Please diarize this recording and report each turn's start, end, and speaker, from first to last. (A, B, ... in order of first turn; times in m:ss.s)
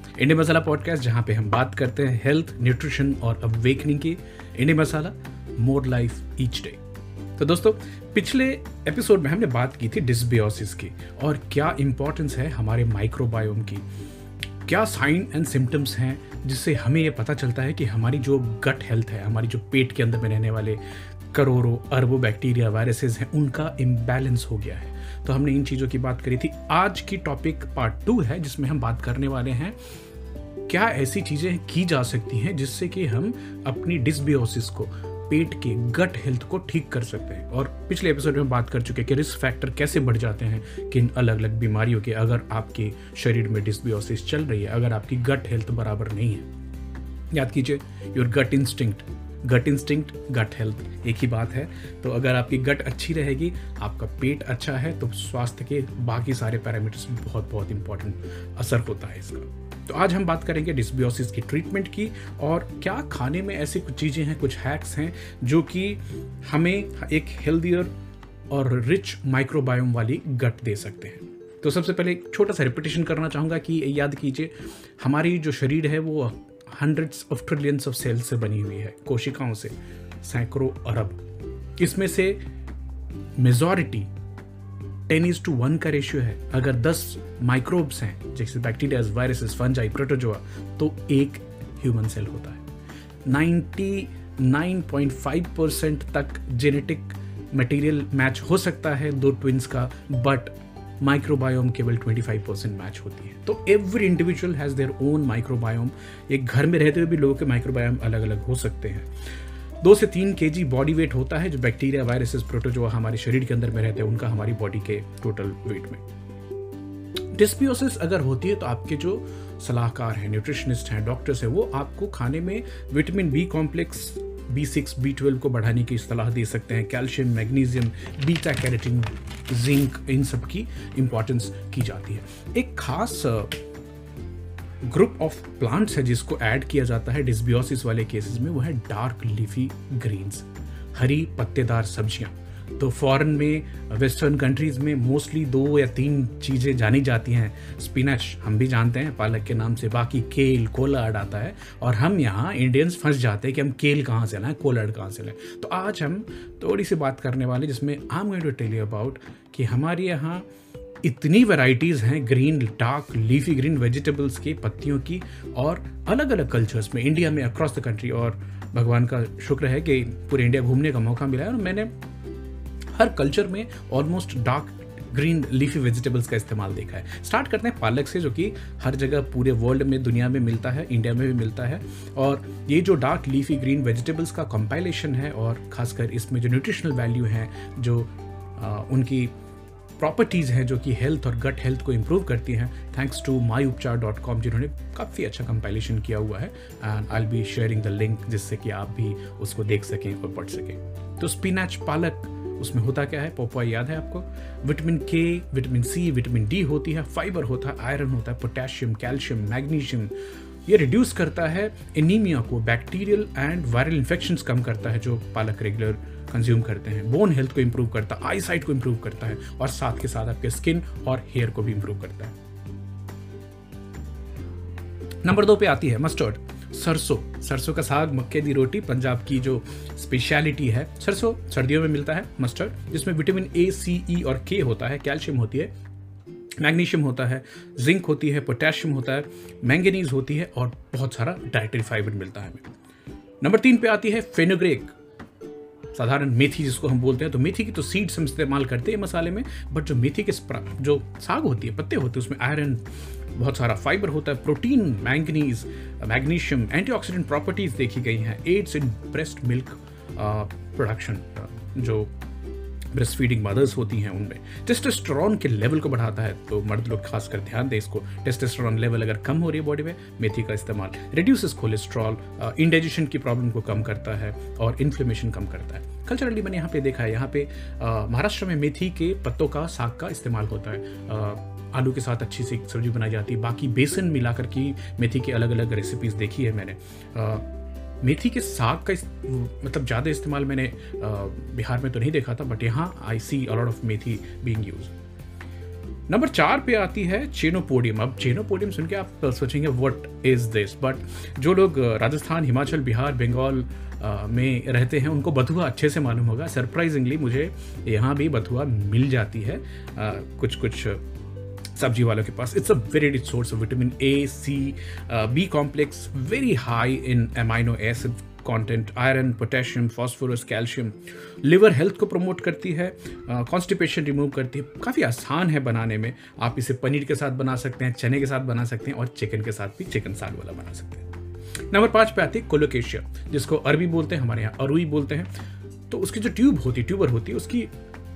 0:00.2-0:06.8 A
0:07.4-0:13.8 A
0:14.6-0:20.8 A
0:21.3-0:29.8 A
0:30.7-0:46.5 A
0:47.3-1:07.9 A
1:08.5-1:21.2 A
1:21.8-1:22.4 A
1:23.4-1:24.1 A
1:25.1-1:32.6 A
1:33.2-1:49.1 A
1:49.8-1:56.0 A
1:57.3-2:13.6 A
2:14.8-2:40.4 A
2:41.0-2:51.9 A
2:52.9-3:09.3 A
3:10.0-3:30.1 A
3:30.6-3:42.4 A
3:45.2-3:55.7 A
3:56.6-4:02.6 A
4:03.4-4:04.9 A
4:05.9-4:12.8 A
4:13.3-4:22.1 A
4:22.9-4:47.4 A
4:48.0-4:54.9 A
4:56.1-5:11.0 A
5:11.7-5:31.1 A
5:31.7-5:35.3 A
5:35.9-5:37.7 A